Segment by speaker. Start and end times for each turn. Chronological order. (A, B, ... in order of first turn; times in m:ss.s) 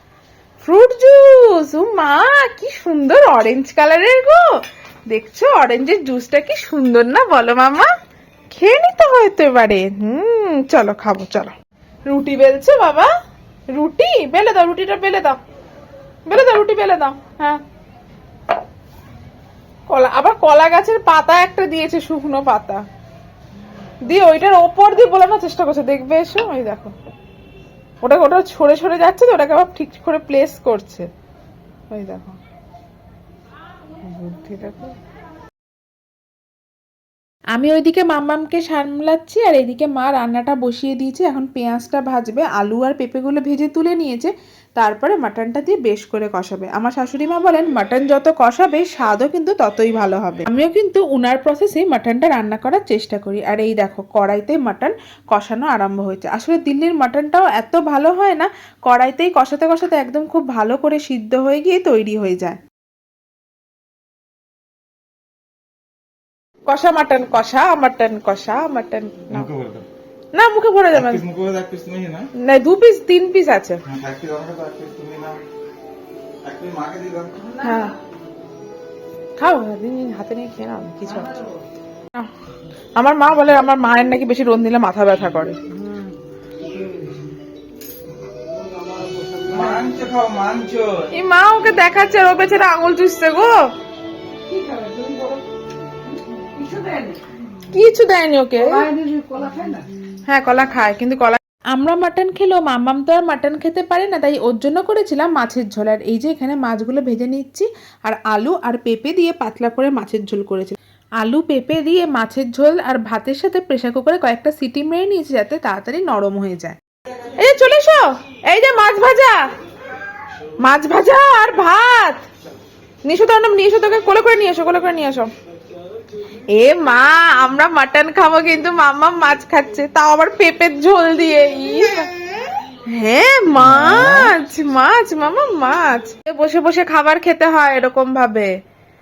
0:00.6-0:07.9 A
0:08.5-0:11.5 A
0:12.1-0:13.1 A
0:13.7-0:15.4 A
0:16.3-0:17.6 A
0:19.9-0:22.8 A
0:24.0-0:26.9 A
0:28.0-0:31.1 A
0:31.9-0:32.4 A
0:34.0-0:35.0 A
0:37.5-1:02.6 A
1:06.7-1:09.5 A
1:09.3-1:09.9 B
1:10.3-1:11.2 A
1:10.9-1:12.3 B
1:12.4-1:13.8 A
1:13.9-1:15.4 B
1:16.4-1:17.3 B
1:17.4-1:18.0 C
1:17.6-1:18.0 A
1:19.4-1:21.3 A
1:21.0-1:21.6 C
1:23.0-1:25.6 A
1:25.7-1:27.4 C
1:28.4-1:30.0 C
1:29.5-1:31.1 B
1:31.1-1:33.6 A
1:34.5-1:35.4 C
1:36.0-1:37.2 C
1:37.7-1:38.8 A
1:38.6-1:39.9 C
1:40.3-1:56.8 A
1:57.4-1:59.4 A
2:00.6-2:02.3 A
2:03.1-2:05.3 A
2:06.5-2:12.1 A
2:12.8-2:18.5 A
2:13.5-2:14.4 B